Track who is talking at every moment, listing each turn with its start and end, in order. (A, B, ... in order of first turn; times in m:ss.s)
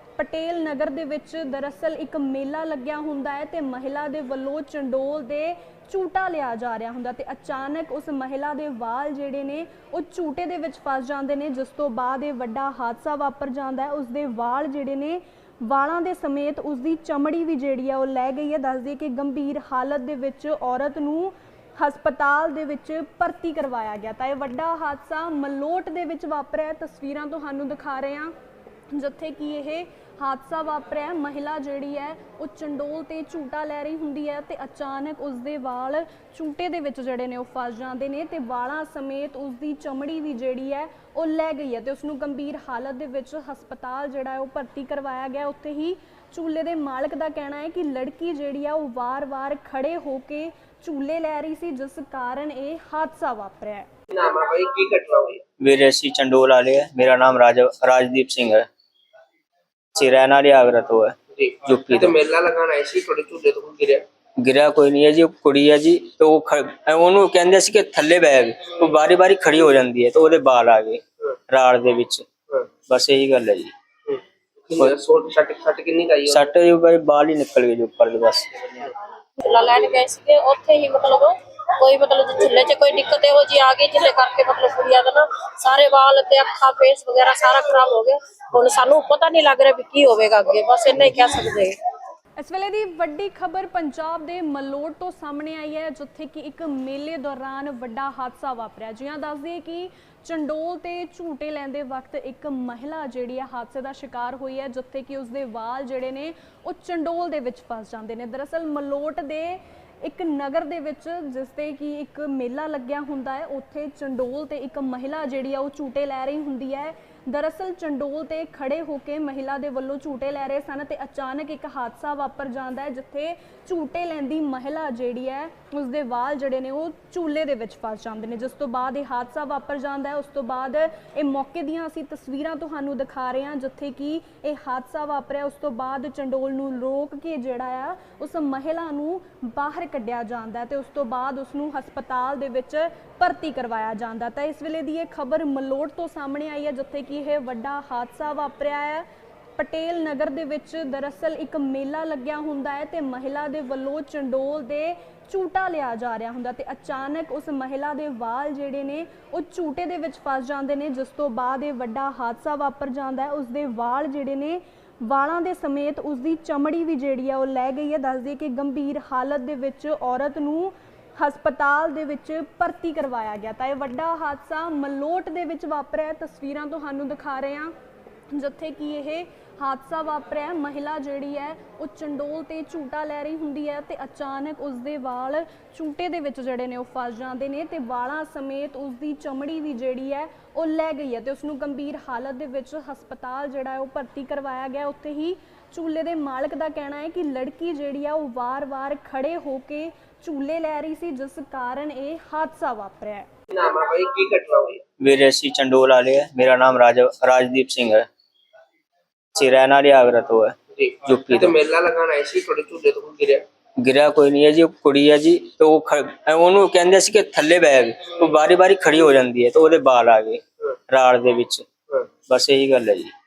0:00.2-0:28.3 A
0:28.9-0:53.9 A
0:54.1-0:55.4 B
0:55.6-0:58.7 C
1:00.0-1:02.1 C
1:01.4-1:04.0 B
1:04.4-1:12.3 C
1:12.9-1:13.7 C
1:14.1-1:16.5 B
1:16.3-1:18.5 C
1:19.4-1:31.8 D
1:32.4-2:29.1 A
2:29.6-2:57.7 A
2:58.3-3:23.3 A
3:23.5-3:24.8 B
3:25.0-3:28.1 C
3:29.3-3:31.5 C
3:30.8-3:33.4 B
3:33.8-3:41.7 C
3:42.3-3:43.1 C